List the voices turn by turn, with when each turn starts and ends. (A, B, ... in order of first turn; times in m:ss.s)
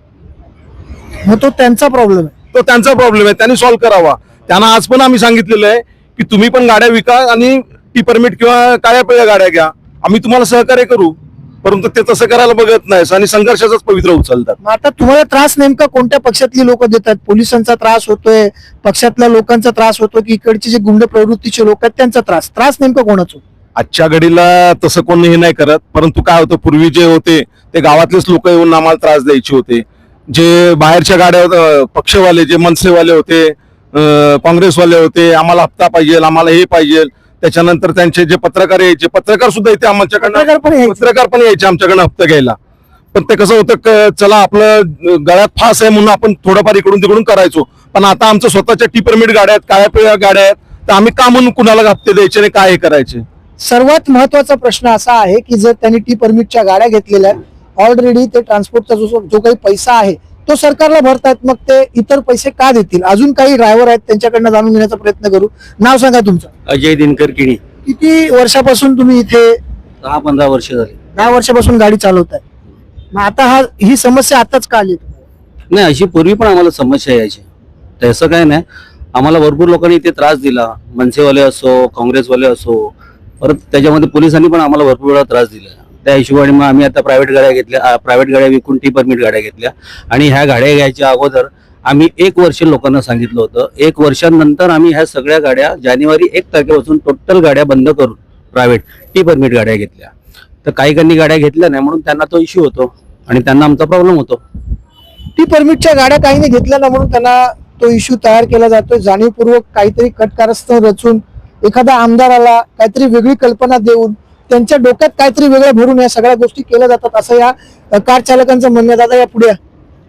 0:01.2-0:02.3 A
0:02.5-0:14.6 B
0:14.6-0:23.4 A
0:23.8-0:42.6 B
0:40.2-0:41.0 A
0:43.1-0:53.2 B
0:53.6-1:06.5 A
1:06.7-1:07.6 C
1:07.8-1:09.6 A
1:10.0-1:11.0 C
1:11.2-1:12.4 A
1:13.1-1:15.2 A
1:15.7-1:17.4 C
1:18.0-1:18.6 C
1:19.1-1:40.1 C
1:40.6-1:44.4 C
1:45.4-1:59.6 A